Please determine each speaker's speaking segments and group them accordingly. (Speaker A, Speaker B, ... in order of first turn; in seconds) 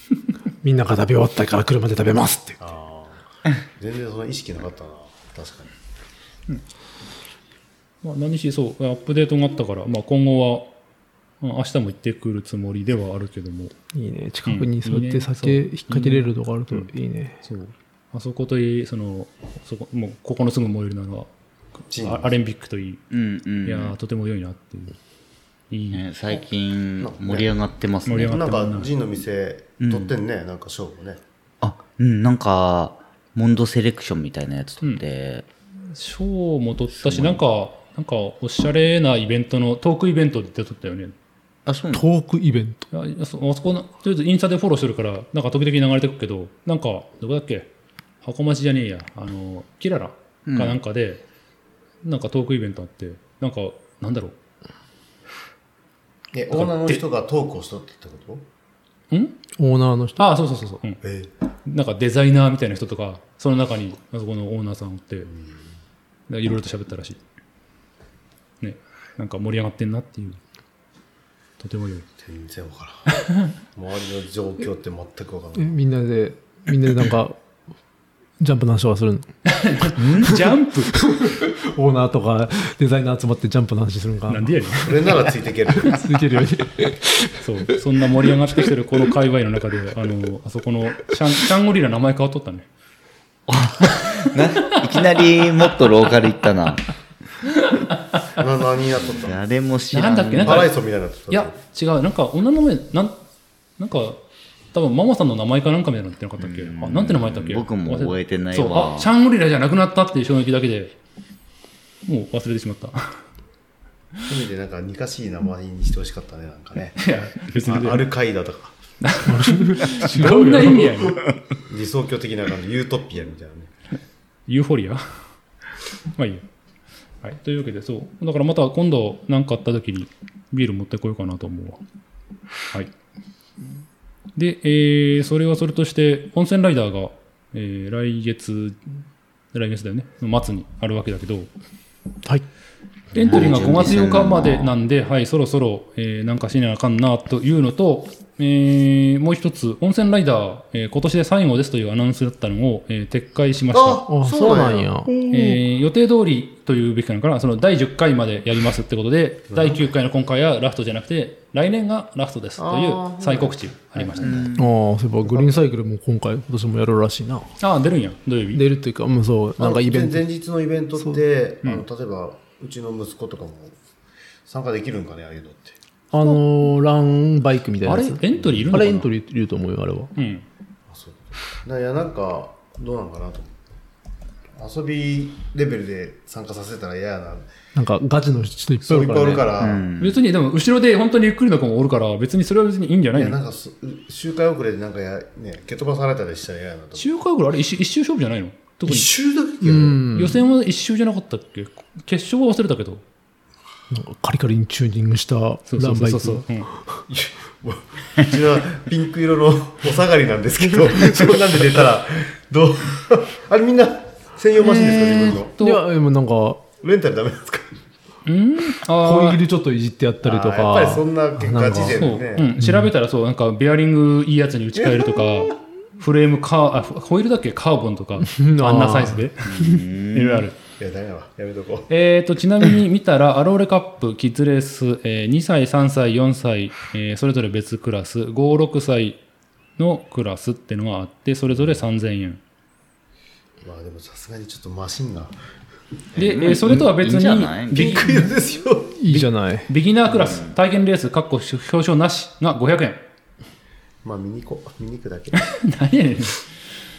Speaker A: 0.6-2.6, 13.9-17.4, 41.9-42.9, 59.6-60.2, 75.6-77.4, 78.4-79.3, 81.0-85.1, 85.7-87.8, 119.2-121.1, 154.1-155.6, 164.6-167.5, 168.5-170.2, 176.1-180.1, 187.8-189.5, 199.6-200.4, 203.9-207.0, 210.9-211.3, 214.9-216.6, 219.0-222.1, 222.6-222.9, 228.2-229.8, 249.0-249.7
Speaker B: 2.6-5.7, 21.9-22.4, 27.0-27.6, 28.1-31.2, 56.3-58.5, 61.0-61.3, 65.3-65.6, 72.2-73.1, 73.8-75.8, 84.8-86.2, 98.4-99.4, 100.4-101.6, 114.3-118.7, 121.7-123.7, 153.7-155.0, 159.5-159.8, 162.6-164.5, 165.2-165.6, 169.6-173.8, 174.5-175.8, 178.3-178.7, 180.9-183.7, 184.6-187.5, 188.8-189.9, 193.1-197.1, 198.8-200.0, 207.1-215.6, 216.8-217.8, 220.2-222.5, 224.8-225.5, 230.8-231.9, 243.6-245.4, 247.7-249.0, 254.0-255.5
Speaker C: 8.0-10.7, 11.4-13.7, 14.4-16.9, 17.4-21.3, 22.0-23.0, 23.6-25.0, 25.7-26.0, 28.1-28.9, 35.9-41.1, 42.9-47.7, 48.2-51.2, 52.0-54.4, 56.5-57.0, 59.1-59.4, 60.2-61.0, 61.6-65.3, 66.3-67.2, 68.6-70.4, 71.6-72.1, 79.5-81.0, 84.3-85.3, 87.4-92.7, 97.4-98.3, 99.9-100.8, 101.3-103.2, 103.8-104.2, 104.7-110.9, 112.1-113.2, 117.0-118.1, 119.0-121.3, 124.5-125.2, 126.2-126.4, 127.2-131.8, 134.4-139.0, 139.5-141.5, 143.1-154.0, 155.3-164.4, 167.6-168.6, 177.8-179.1, 180.2-180.4, 190.0-193.4, 197.0-199.1, 200.1-203.0, 205.7-206.7, 215.5-215.8, 218.3-219.4, 221.9-229.6, 230.1-230.6, 231.9-239.2, 239.8-242.4, 246.2-248.3, 249.1-253.0, 255.5-256.5
Speaker D: 23.1-24.0, 25.9-28.7, 29.8-30.1, 31.6-35.5, 37.0-37.4, 41.7-42.1, 50.5-50.8, 80.0-80.4, 93.5-96.9, 99.0-100.7, 106.4-109.1, 143.2-144.7, 164.2-164.7, 189.6-190.2, 229.4-230.5, 246.2-248.2, 250.1-250.5